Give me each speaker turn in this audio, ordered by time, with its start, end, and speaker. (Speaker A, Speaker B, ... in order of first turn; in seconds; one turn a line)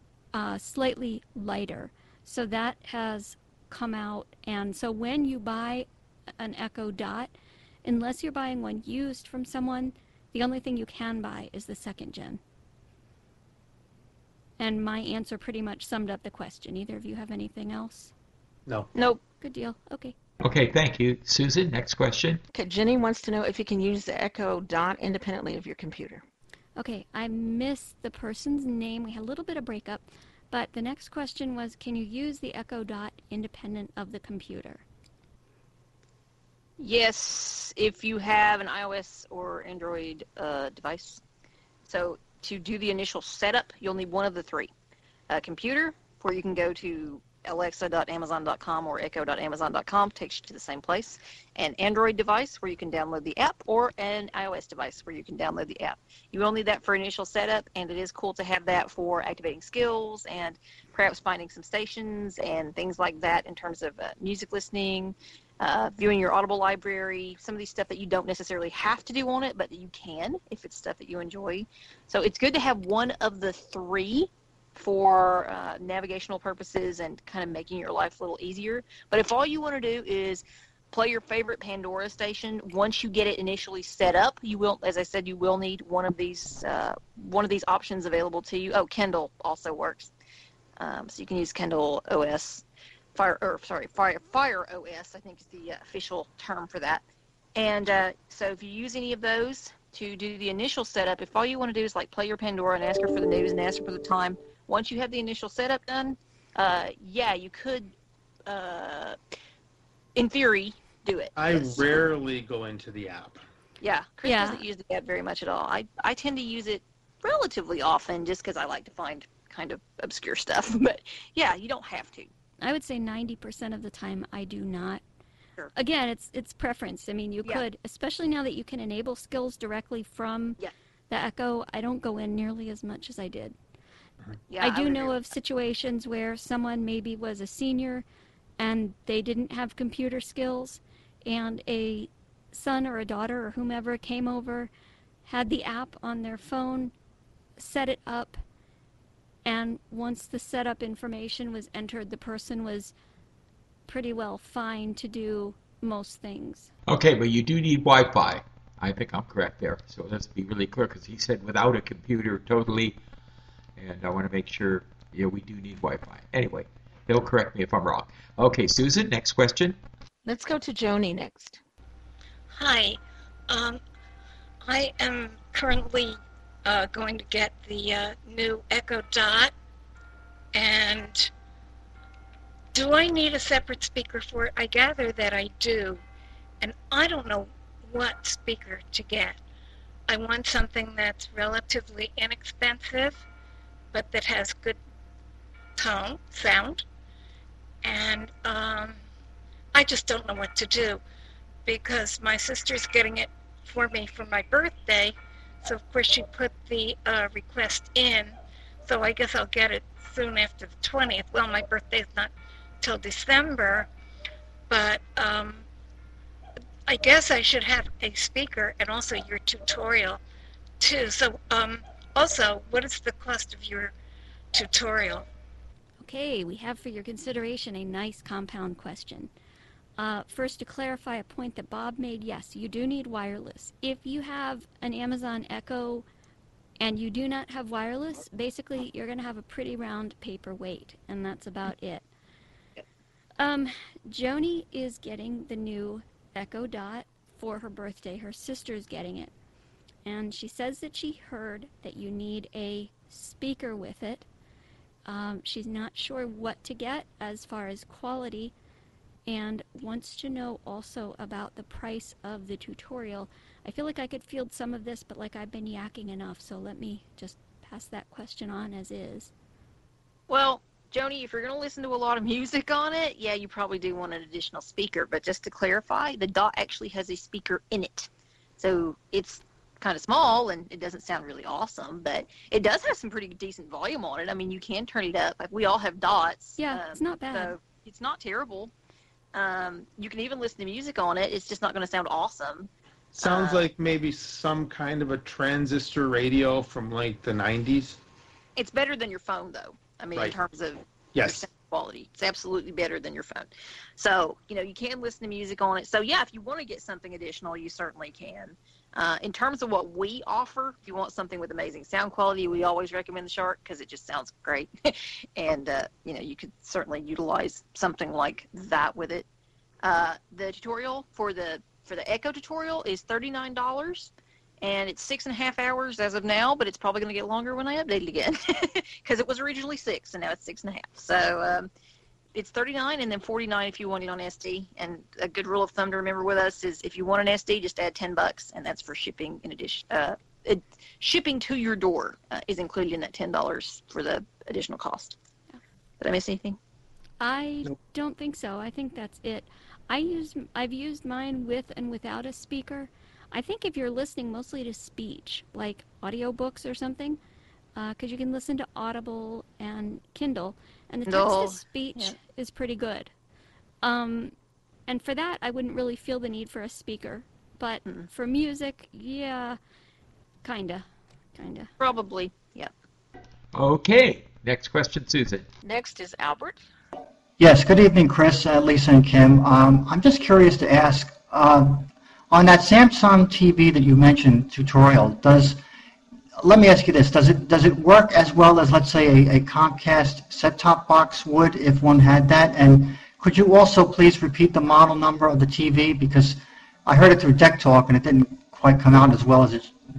Speaker A: 0.3-5.9
Speaker A: 6.4-7.3
Speaker A: 7.8-12.4
Speaker A: 14.6-18.1
Speaker B: 18.9-19.2
Speaker A: 19.4-20.1
Speaker C: 20.4-22.4
Speaker D: 22.5-26.2
Speaker A: 26.8-34.8
Speaker B: 36.8-41.2
Speaker B: 41.9-44.7
Speaker B: 45.3-90.1
Speaker B: 90.8-92.6
Speaker B: 93.1-97.0
Speaker B: 97.5-107.9
Speaker B: 108.5-109.2
Speaker B: 110.2-112.0
Speaker E: 111.4-113.4
Speaker B: 113.8-122.3
Speaker A: 114.2-114.6
Speaker A: 122.6-125.0
Speaker A: 125.7-130.6
Speaker A: 131.1-133.6
Speaker B: 134.5-135.2
Speaker A: 134.6-138.1
Speaker A: 138.6-144.7
Speaker A: 145.2-146.9
Speaker A: 147.6-148.4
Speaker A: 149.4-152.9
Speaker A: 153.9-156.7
Speaker C: 156.9-163.0
Speaker C: 163.8-169.8
Speaker D: 170.2-171.6
Speaker F: 172.5-173.0
Speaker F: 173.5-173.8
Speaker F: 174.6-179.5
Speaker F: 180.5-181.3
Speaker F: 182.7-186.0
Speaker F: 186.6-189.4
Speaker F: 190.1-193.2
Speaker F: 193.9-194.8
Speaker F: 195.8-196.8
Speaker F: 197.8-199.0
Speaker F: 199.7-201.0
Speaker F: 201.7-212.3
Speaker F: 212.8-213.9
Speaker F: 214.7-215.6
Speaker F: 216.9-220.2
Speaker F: 220.8-223.9
Speaker F: 224.5-225.3
Speaker A: 226.0-229.3
Speaker A: 230.0-236.1
Speaker A: 236.8-242.1
Speaker A: 243.4-249.3
Speaker A: 250.1-254.3
Speaker A: 255.1-258.5
Speaker A: 259.3-269.3
Speaker B: 270.3-288.7
Speaker A: 286.6-287.5
Speaker B: 289.3-293.7
Speaker E: 293.1-298.0
Speaker B: 298.6-319.3
Speaker E: 301.1-301.4
Speaker B: 319.8-324.1
Speaker B: 324.6-331.7
Speaker B: 332.3-345.1
Speaker B: 346.0-346.6
Speaker A: 347.2-357.2
Speaker A: 357.8-363.1
Speaker B: 361.1-362.1
Speaker A: 363.8-364.3
Speaker A: 364.9-369.6
Speaker A: 370.4-370.9
Speaker A: 371.4-371.7
Speaker B: 371.8-372.7
Speaker C: 373.5-375.5
Speaker D: 375.6-376.6
Speaker G: 377.4-385.6
Speaker G: 386.4-399.7